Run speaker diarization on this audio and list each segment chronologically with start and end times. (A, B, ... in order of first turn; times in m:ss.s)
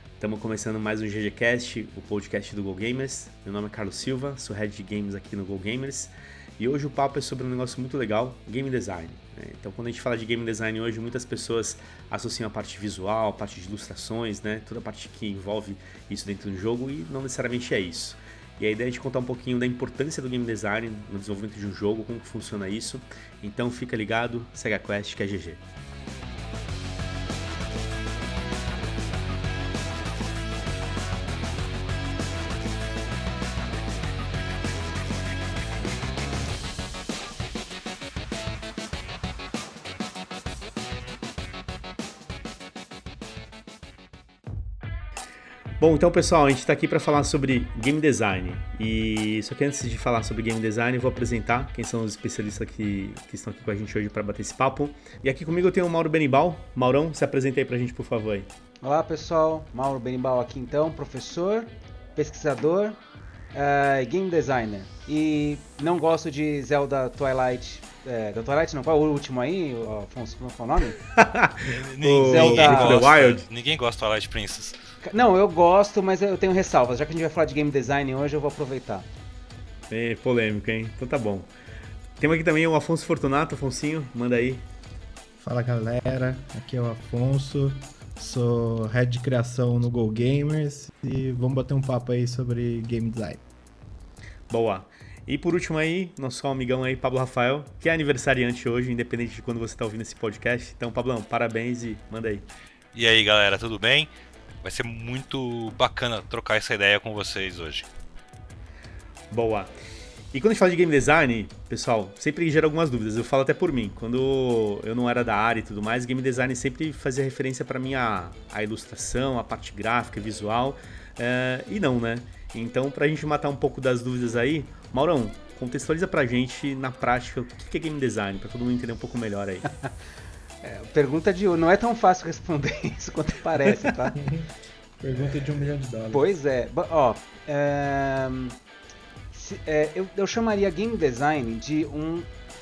0:00.2-0:25.6 A
0:45.8-0:58.5 A
0:58.8-1:03.0 B
1:03.5-1:11.0 B
1:11.0-1:13.4 A
1:11.6-1:14.8 C
1:12.2-1:13.0 B
1:15.0-1:19.1 B
1:19.9-1:21.5 A
1:22.2-1:24.6 A
1:25.4-1:33.4 D
1:34.5-1:42.5 A
1:42.9-1:44.1 C
1:44.6-1:47.9 C
1:49.3-1:49.7 A
1:50.3-2:09.7 A
2:10.6-2:14.2 B
2:14.2-2:16.2 D
2:16.1-2:18.6 B
2:19.3-2:22.3 B